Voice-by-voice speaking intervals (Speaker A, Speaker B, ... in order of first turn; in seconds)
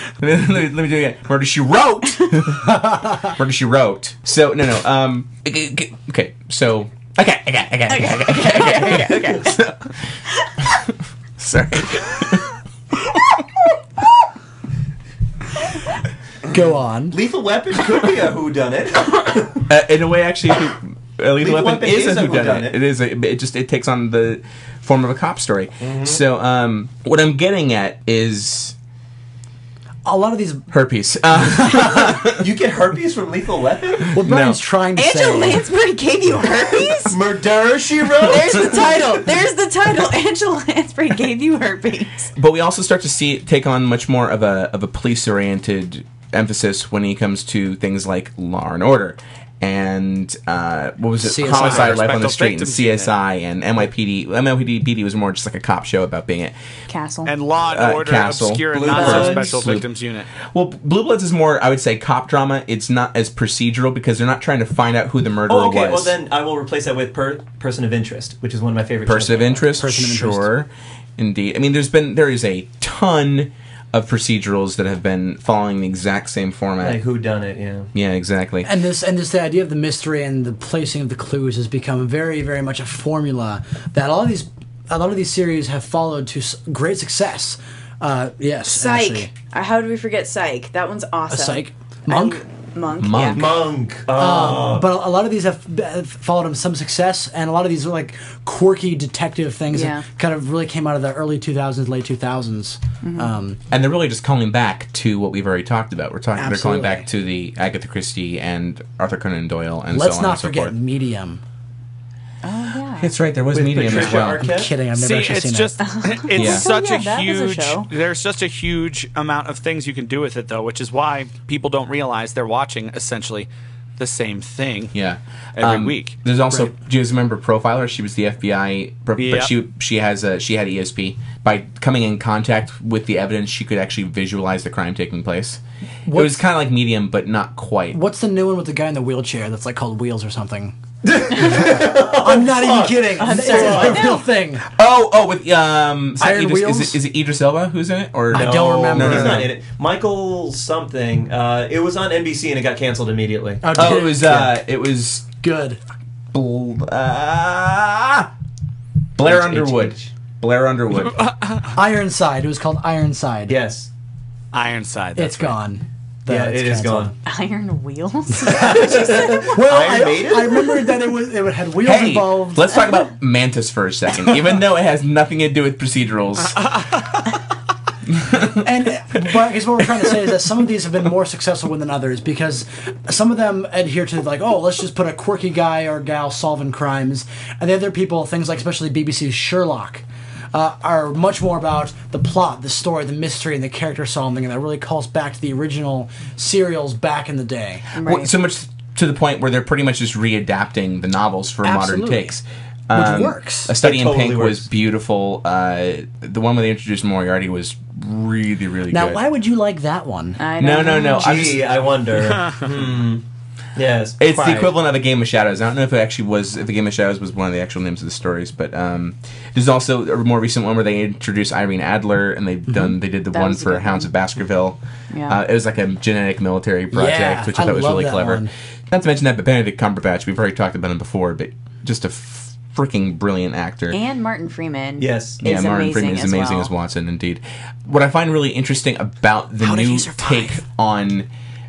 Speaker A: 0.2-9.9, 10.6-12.6, 19.7-28.8, 30.7-32.5, 34.1-34.6, 42.4-56.5, 57.6-59.9, 60.4-66.1, 69.1-77.0, 77.9-78.7, 93.0-93.7, 103.7-110.7, 113.0-114.5, 116.3-116.7, 124.9-135.6, 136.1-138.0, 144.8-149.5, 153.7-155.3, 156.3-158.3, 159.2-161.3, 171.8-176.9, 178.1-178.7, 198.0-209.2, 210.6-211.6, 214.2-234.0, 235.4-241.3
Speaker B: 2.8-3.1, 16.5-17.2, 30.0-30.7, 31.4-32.1, 34.1-35.6, 51.2-52.3, 69.8-70.5, 78.6-89.3, 91.3-92.4, 94.1-103.6, 106.3-107.1, 109.9-111.4, 113.5-115.8, 136.1-136.4, 137.9-140.8, 141.3-144.7, 146.2-147.0, 148.3-149.5, 153.6-154.6, 155.3-155.8, 161.7-163.6, 165.2-167.2, 168.5-172.7, 178.6-197.9, 201.6-202.3, 202.9-203.8, 208.9-210.4, 226.9-228.5, 239.6-240.6
Speaker C: 7.9-9.6, 35.0-37.2, 38.2-42.3, 56.9-57.3, 59.0-59.4, 88.7-93.5, 99.7-100.0, 103.0-103.3, 112.4-113.1, 115.8-117.9, 143.2-144.2, 167.3-169.5, 197.9-198.3, 210.4-211.6, 223.3-224.1, 225.1-225.4, 233.9-236.7
Speaker D: 17.1-19.7, 21.4-22.8, 25.8-26.2, 32.4-34.2, 37.1-39.2, 58.7-59.7, 65.5-69.7, 76.8-77.9, 93.3-95.0, 113.5-114.8, 141.0-144.2, 148.3-153.9, 159.2-160.1, 163.5-163.9, 166.3-167.2, 168.5-170.8, 203.8-204.7, 211.1-213.2, 213.8-214.8, 235.0-235.4
Speaker E: 51.4-53.1, 57.3-60.3, 114.9-124.9, 125.6-126.2, 129.2-129.5, 161.2-161.6, 164.5-165.6, 212.2-212.7